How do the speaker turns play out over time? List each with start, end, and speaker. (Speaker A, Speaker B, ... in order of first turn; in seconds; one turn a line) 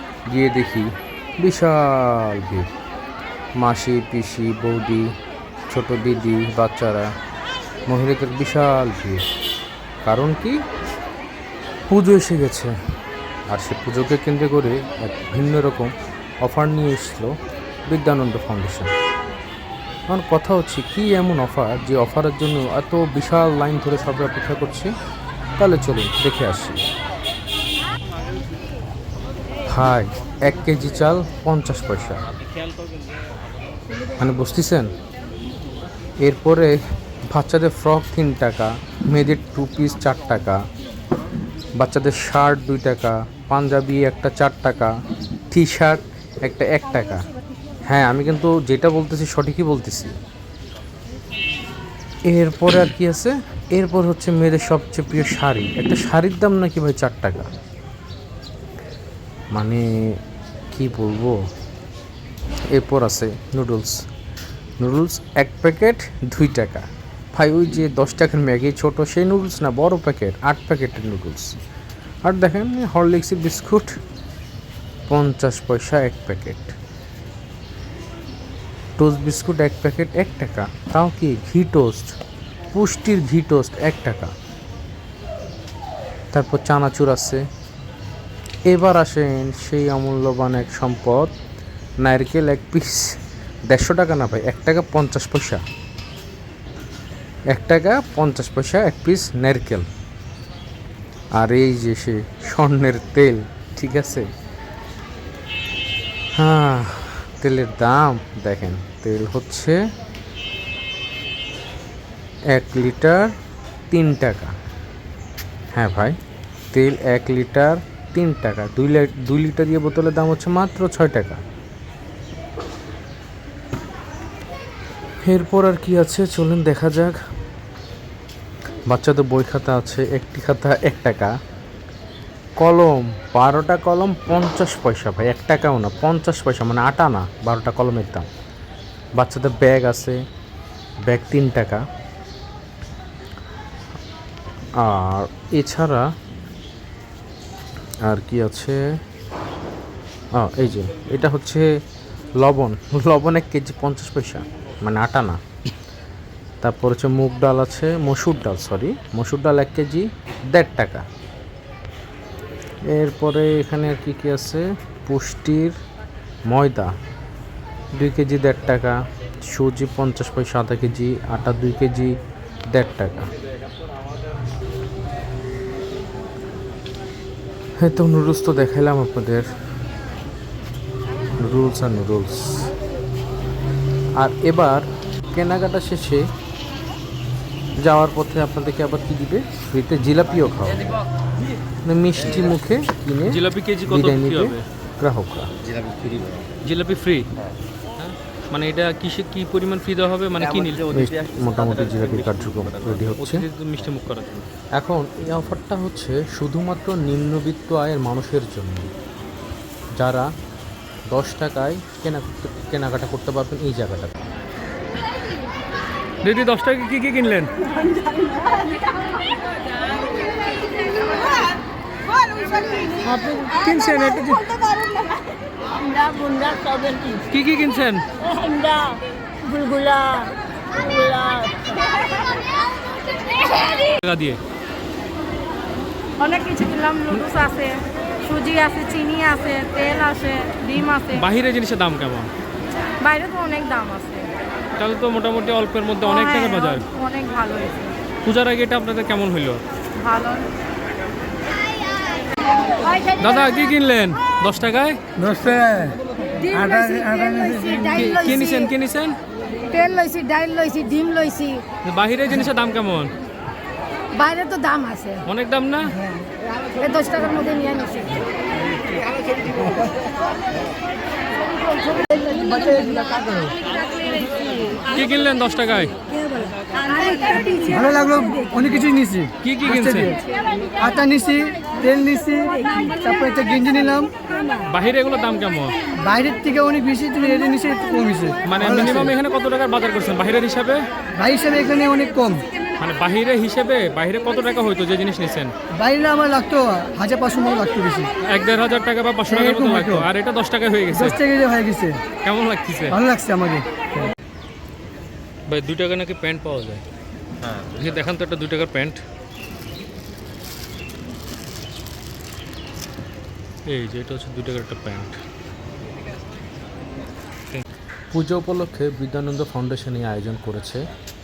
Speaker A: 0.3-0.9
Speaker A: 1.4-2.7
Speaker A: 3.6-5.1
Speaker A: 5.7-7.1
Speaker A: 7.9-9.2
Speaker A: 10.0-10.6
Speaker A: 11.9-12.7
Speaker A: 13.5-15.9
Speaker A: 16.4-17.3
Speaker A: 17.9-18.9
Speaker A: 20.1-24.9
Speaker A: 25.6-26.8
Speaker A: 29.7-32.2
Speaker A: 34.2-34.9
Speaker A: 36.2-36.7
Speaker A: 37.3-40.6
Speaker A: 41.8-44.9
Speaker A: 45.5-47.2
Speaker A: 47.9-50.1
Speaker A: 52.3-57.5
Speaker A: 59.5-59.8
Speaker A: 60.7-61.4
Speaker A: 62.7-63.9
Speaker A: 64.8-71.5
Speaker A: 72.2-74.0
Speaker A: 75.1-76.7
Speaker A: 79.0-82.1
Speaker A: 82.7-84.3
Speaker A: 86.3-87.4
Speaker A: 88.7-91.3
Speaker A: 92.0-93.2
Speaker A: 93.7-95.6
Speaker A: 97.5-99.8
Speaker A: 101.3-104.3
Speaker A: 106.4-109.8
Speaker A: 112.5-113.3
Speaker A: 113.9-114.5
Speaker A: 115.7-116.2
Speaker A: 116.7-121.4
Speaker A: 125.3-127.2
Speaker A: 128.9-131.3
Speaker A: 132.6-138.3
Speaker A: 139.2-140.2
Speaker A: 141.1-141.8
Speaker A: 144.8-146.0
Speaker A: 148.1-148.8
Speaker A: 150.4-151.6
Speaker A: 152.4-155.4
Speaker A: 156.6-161.0
Speaker A: 162.9-165.7
Speaker A: 166.5-166.9
Speaker A: 168.0-169.0
Speaker A: 169.5-172.1
Speaker A: 172.7-173.3
Speaker A: 177.8-179.5
Speaker A: 181.4-182.7
Speaker A: 184.2-186.2
Speaker A: 187.8-190.9
Speaker A: 191.8-195.5
Speaker B: 193.3-194.6
Speaker B: 196.6-197.3
Speaker B: 198.0-200.9
Speaker A: 200.9-203.4
Speaker B: 203.1-204.4
Speaker A: 204.8-208.9
Speaker A: 210.0-210.3
Speaker A: 211.1-214.2
Speaker B: 216.2-217.6
Speaker C: 217.7-218.9
Speaker B: 223.1-224.5
Speaker C: 224.7-225.2
Speaker C: 225.8-227.2
Speaker B: 227.3-228.0
Speaker C: 228.2-231.8
Speaker B: 234.0-234.4
Speaker D: 236.2-241.2
Speaker B: 241.1-242.3
Speaker D: 243.0-244.3
Speaker B: 244.8-246.8
Speaker D: 246.0-247.9
Speaker B: 248.2-249.6
Speaker D: 250.0-250.4
Speaker B: 253.1-255.0
Speaker E: 255.2-255.9
Speaker D: 256.4-258.7
Speaker E: 256.6-257.8
Speaker B: 257.9-259.1
Speaker D: 259.7-261.6
Speaker B: 261.8-263.1
Speaker D: 264.1-265.2
Speaker B: 265.2-265.9
Speaker D: 266.8-268.2
Speaker E: 272.1-273.5
Speaker B: 274.9-275.9
Speaker E: 277.6-280.2
Speaker B: 279.4-280.1
Speaker E: 280.8-284.1
Speaker B: 284.7-285.7
Speaker E: 286.0-289.1
Speaker B: 288.4-290.8
Speaker E: 291.1-292.4
Speaker B: 292.8-295.5
Speaker E: 295.7-298.1
Speaker B: 298.3-301.2
Speaker E: 299.3-300.0
Speaker E: 300.9-302.0
Speaker B: 302.2-303.0
Speaker E: 302.9-304.0
Speaker B: 305.5-306.8
Speaker B: 307.6-309.0
Speaker B: 313.7-315.1
Speaker A: 318.1-320.8